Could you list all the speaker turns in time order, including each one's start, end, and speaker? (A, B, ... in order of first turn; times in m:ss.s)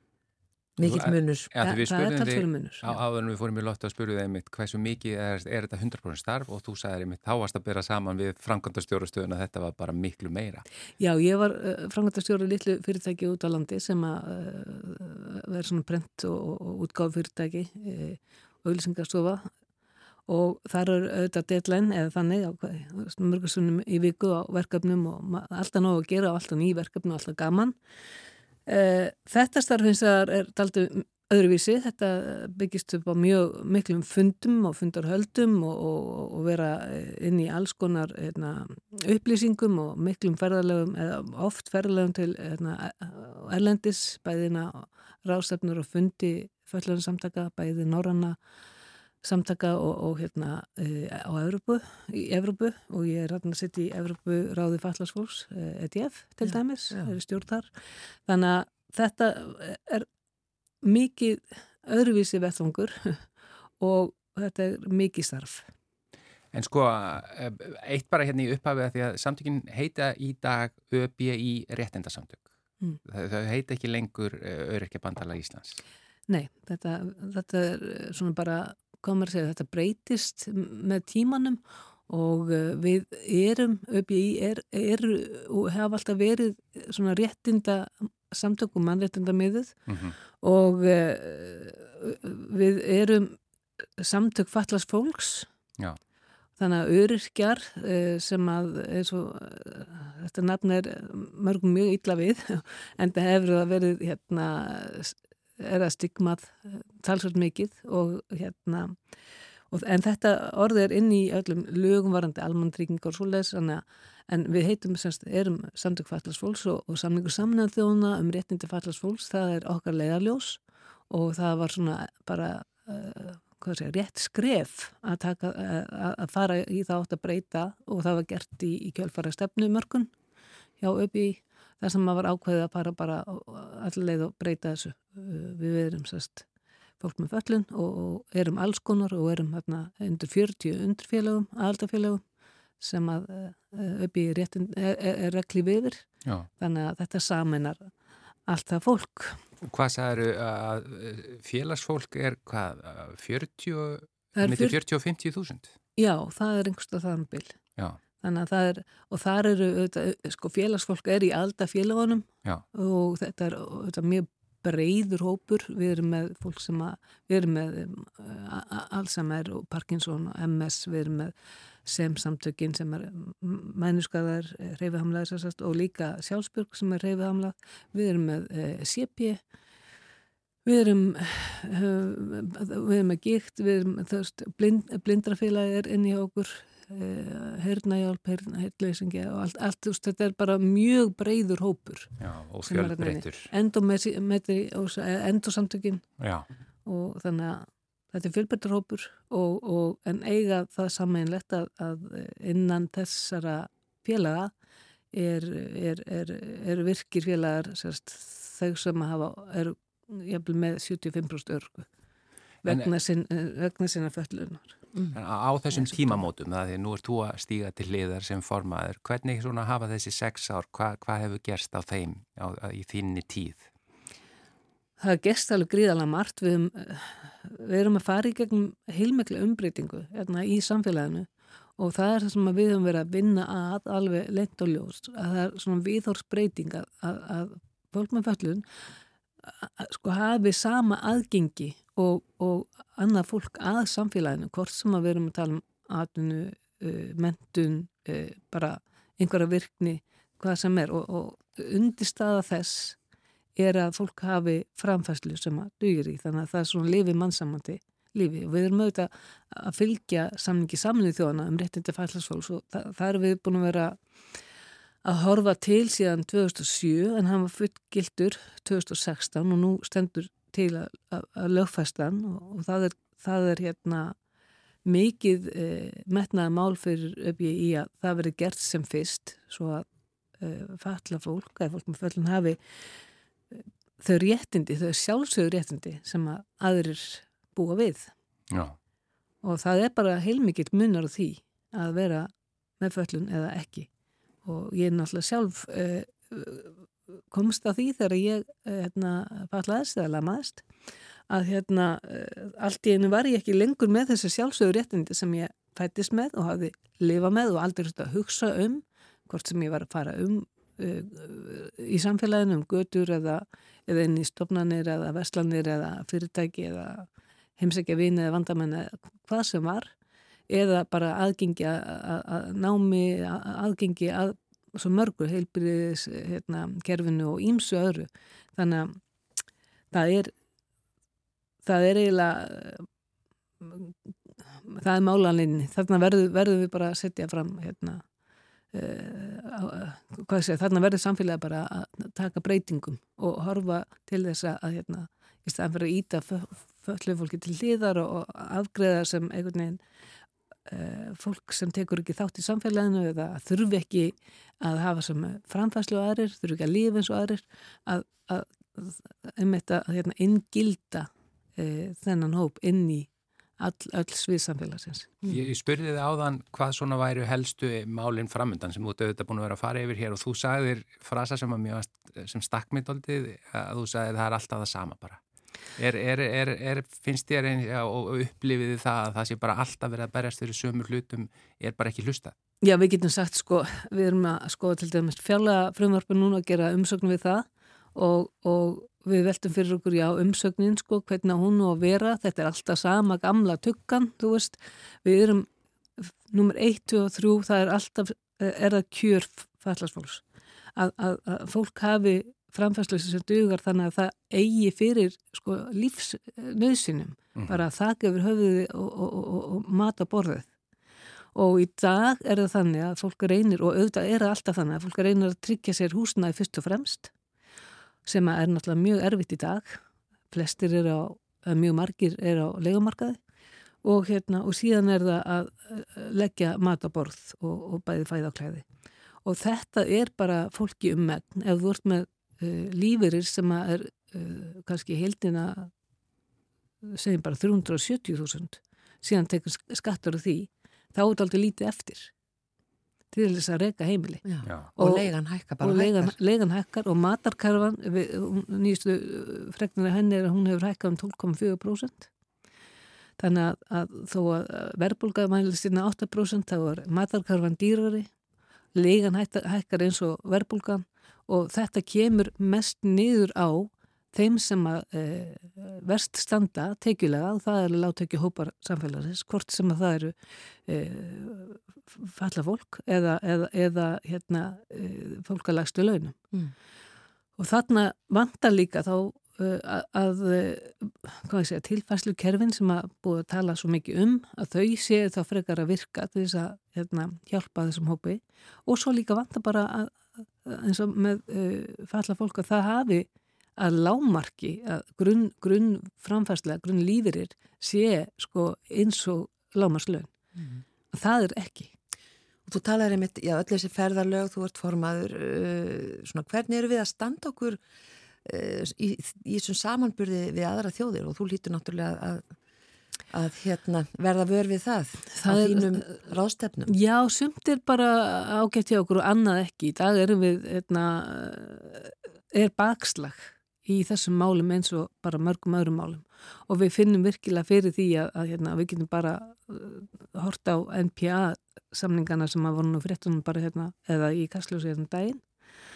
0:00.8-0:01.5 A
0:00.8-0:10.6 B
0:01.6-0:02.9 C
0:11.0-0:19.5 C
0:20.3-0:27.8 C
0:28.7-0:48.4 C
0:49.2-0:57.7 C
0:56.4-0:57.1 A
0:58.3-1:00.1 C
1:00.8-1:03.3 C
1:03.8-1:05.7 C
1:06.5-1:12.4 B
1:13.0-1:15.8 B
1:16.3-1:29.7 C
1:29.9-1:30.2 B
1:30.4-1:33.4 C
1:34.0-1:35.5 C
1:36.6-1:49.0 C
1:49.7-2:10.1 C
2:10.8-2:16.5 C
2:17.0-2:22.2 C
2:22.8-2:26.1 C
2:26.6-2:27.9 C
2:28.5-2:29.4 C
2:29.7-2:35.7 B
2:34.4-2:34.8 C
2:36.0-2:37.6 C
2:38.2-2:51.3 C
2:51.8-2:59.4 C
3:00.6-3:12.1 C
3:12.2-3:13.5 B
3:12.7-3:16.0 C
3:16.2-3:16.5 B
3:16.9-3:24.5 C
3:25.1-3:31.9 C
3:32.6-3:34.8 C
3:32.6-3:32.9 B
3:35.1-3:43.7 B
3:45.0-3:58.6 C
3:59.4-4:13.0 C
4:13.6-4:24.0 C
4:25.0-4:34.2 C
4:34.8-4:39.9 C
4:40.4-4:42.6 C
4:43.5-4:48.1 C
4:48.5-4:48.8 B
4:49.4-4:53.9 C
4:54.4-5:00.6 C
5:01.3-5:19.9 C
5:20.5-5:29.0 C
5:29.9-5:30.3 C
5:31.6-5:32.9 C
5:33.6-5:33.9 C
5:34.7-5:38.0 C
5:38.7-5:49.8 C
5:50.7-6:05.2 C
6:05.3-6:15.2 B
6:15.8-6:22.3 B
6:22.6-6:35.5 C
6:36.0-6:40.2 C
6:40.8-6:50.5 C
6:47.4-6:47.6 B
6:51.4-6:57.1 C
6:58.0-7:03.2 C
7:03.8-7:08.6 C
7:09.2-7:15.7 C
7:16.8-7:22.1 C
7:23.1-7:24.2 C
7:24.2-7:26.2 A
7:24.8-7:25.1 C
7:25.6-7:32.1 C
7:33.2-7:38.1 C
7:38.8-7:50.2 C
7:50.7-7:56.2 C
7:57.4-8:20.1 C
8:20.4-8:20.6 A
8:20.9-8:21.7 C
8:22.5-8:27.6 A
8:28.2-8:32.3 A
8:33.1-8:36.7 A
8:35.2-8:35.8 C
8:36.7-8:55.2 C